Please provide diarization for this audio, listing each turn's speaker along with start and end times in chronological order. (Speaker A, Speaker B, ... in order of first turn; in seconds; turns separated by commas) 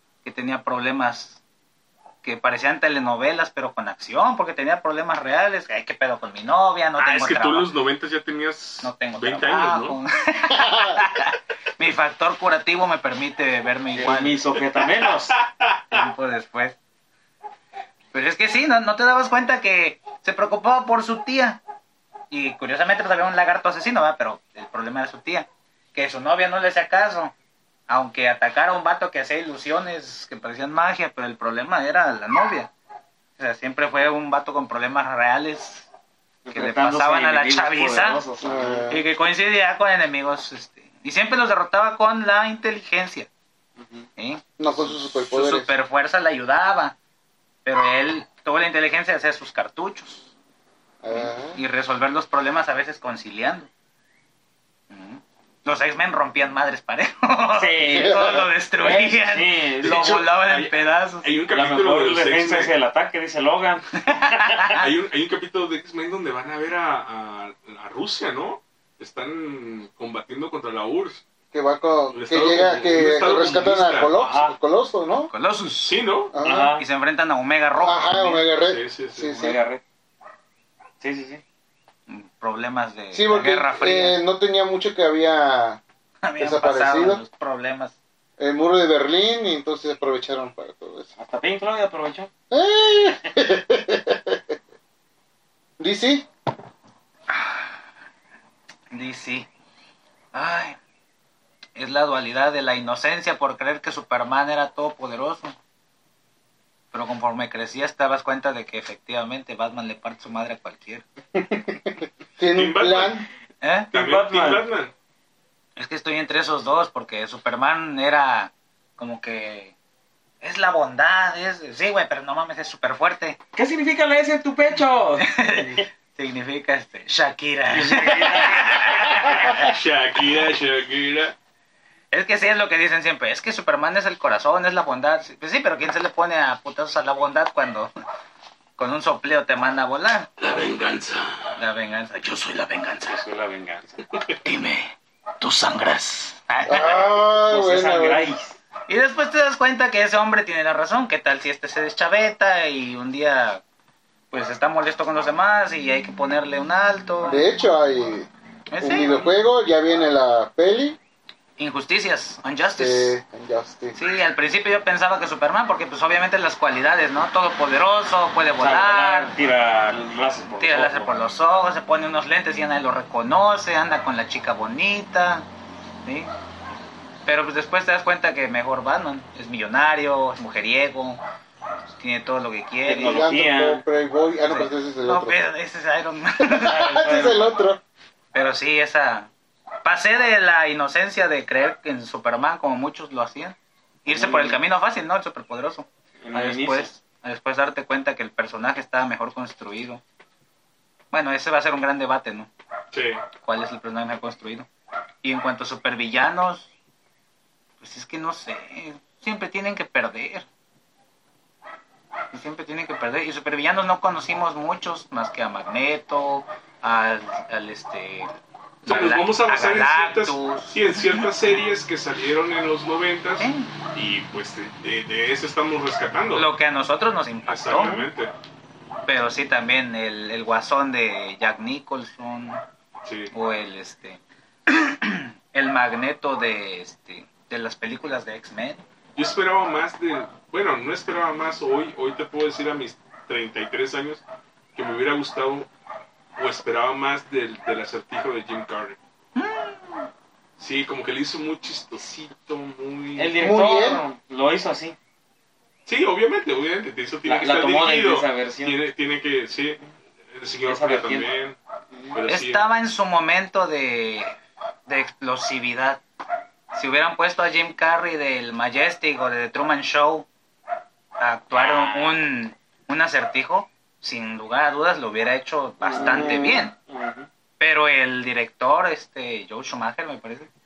Speaker A: 0.2-1.4, Speaker A: 2.2-7.7, Speaker B: 7.0-10.0, Speaker A: 8.8-14.4, Speaker C: 10.7-11.0, Speaker D: 14.0-15.4, Speaker A: 15.9-16.8, Speaker A: 18.1-21.6, Speaker A: 22.3-27.3, Speaker A: 27.9-32.7, Speaker A: 33.4-35.9, Speaker D: 36.5-38.9, Speaker A: 36.5-38.2, Speaker C: 38.4-39.0, Speaker A: 38.9-43.3, Speaker D: 43.8-44.1, Speaker A: 44.2-47.0, Speaker C: 44.6-45.7, Speaker A: 47.6-50.3, Speaker C: 51.0-51.6, Speaker A: 51.1-53.7, Speaker A: 54.9-61.3, Speaker D: 57.5-60.2, Speaker C: 57.9-58.5, Speaker B: 59.8-62.7, Speaker D: 61.5-64.7, Speaker A: 64.0-64.9, Speaker B: 64.8-71.2, Speaker C: 71.5-75.3, Speaker B: 72.1-74.2, Speaker D: 74.1-74.6, Speaker A: 75.3-76.0, Speaker B: 75.8-76.3, Speaker C: 76.3-76.8, Speaker D: 76.4-76.8, Speaker A: 76.8-78.5, Speaker C: 77.8-79.6, Speaker B: 78.6-79.3, Speaker D: 79.2-79.8, Speaker D: 81.0-81.4, Speaker A: 82.1-84.2, Speaker C: 83.1-85.8, Speaker A: 86.2-88.0, Speaker C: 86.4-87.2, Speaker C: 88.4-91.1, Speaker D: 91.2-92.3, Speaker C: 92.5-94.6, Speaker C: 95.8-96.3, Speaker A: 98.9-99.5, Speaker A: 100.3-100.8, Speaker A: 101.8-105.6, Speaker A: 106.9-111.0, Speaker C: 111.3-113.3, Speaker B: 112.5-113.2, Speaker A: 113.6-113.9, Speaker B: 113.9-114.9, Speaker D: 113.9-114.7, Speaker A: 115.8-119.7, Speaker A: 120.4-123.4, Speaker D: 123.6-125.8, Speaker A: 125.2-129.7, Speaker D: 127.7-129.7, Speaker B: 129.3-131.3, Speaker A: 132.1-137.9, Speaker A: 138.8-140.3, Speaker B: 140.4-141.5, Speaker A: 141.6-143.2, Speaker D: 143.1-144.0, Speaker A: 144.4-147.0, Speaker C: 146.7-148.3, Speaker D: 146.9-148.6, Speaker A: 148.9-153.6, Speaker A: 154.3-157.4, Speaker C: 157.2-158.3, Speaker A: 158.7-159.3, Speaker C: 158.8-161.0, Speaker A: 161.6-163.2, Speaker C: 162.8-164.0, Speaker A: 163.9-169.3, Speaker D: 168.6-171.1, Speaker A: 170.6-175.5, Speaker A: 177.3-181.2, Speaker A: 182.0-183.3, Speaker D: 182.9-183.8, Speaker C: 182.9-185.4, Speaker A: 184.5-187.5, Speaker C: 186.4-187.8, Speaker D: 186.7-187.6, Speaker A: 188.3-189.3, Speaker A: 189.8-200.0, Speaker D: 194.1-194.6, Speaker D: 196.2-196.9, Speaker A: 201.1-202.5, Speaker B: 202.9-203.2, Speaker A: 203.4-204.7, Speaker A: 205.2-206.7, Speaker A: 207.8-210.5, Speaker A: 212.3-218.3, Speaker A: 218.8-221.2, Speaker B: 218.8-226.5, Speaker A: 223.4-223.7, Speaker A: 226.3-228.0, Speaker B: 227.5-228.3, Speaker D: 227.8-228.1, Speaker A: 229.1-232.6, Speaker B: 233.0-233.3, Speaker A: 233.3-238.8, Speaker B: 239.2-244.2, Speaker B: 244.8-245.7, Speaker B: 246.4-249.0, Speaker A: 249.4-250.0, Speaker B: 250.6-253.4, Speaker D: 253.2-255.0, Speaker C: 253.4-254.0, Speaker B: 255.9-261.6, Speaker D: 257.3-258.8, Speaker D: 260.6-261.3, Speaker D: 261.9-262.2, Speaker B: 262.1-262.6, Speaker A: 262.3-266.0, Speaker A: 266.7-270.3, Speaker A: 271.2-276.7, Speaker D: 271.5-272.2, Speaker D: 275.8-277.3, Speaker C: 276.0-276.7, Speaker A: 277.6-280.5